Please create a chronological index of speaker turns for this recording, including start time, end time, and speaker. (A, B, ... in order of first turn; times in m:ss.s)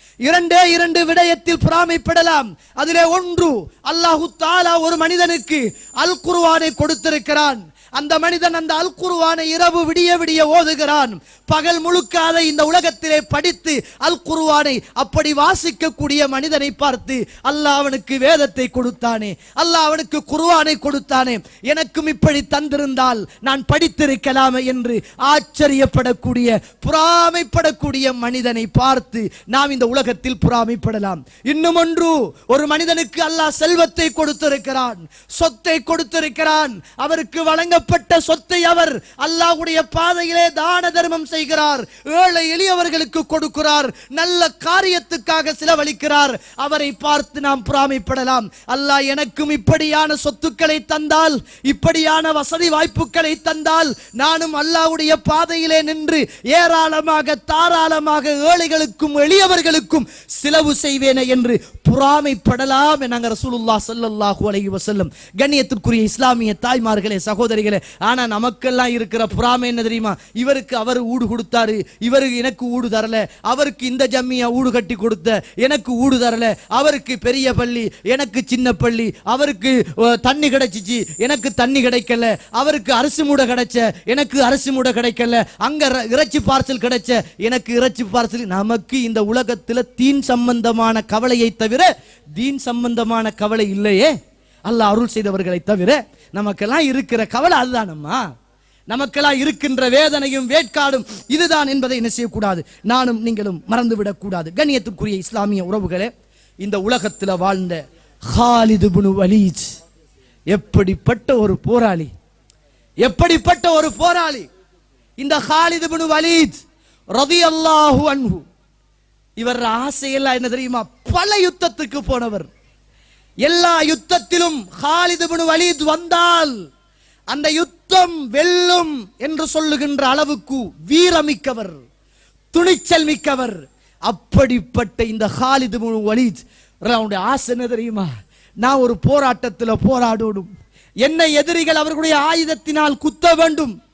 0:00.2-1:34.1 A
1:34.7-1:38.3 A
1:38.9-1:46.1 A
1:46.6-1:49.7 A
1:50.5-1:52.1 A
1:53.0-1:54.5 A
1:55.2-1:56.6 A
1:57.2-1:58.4 A
1:59.4-2:02.5 A
2:03.4-2:06.6 A
2:07.3-2:11.8 A
2:12.5-2:13.6 A
2:14.1-2:18.1 A
2:18.6-2:20.5 A
2:21.0-2:23.8 A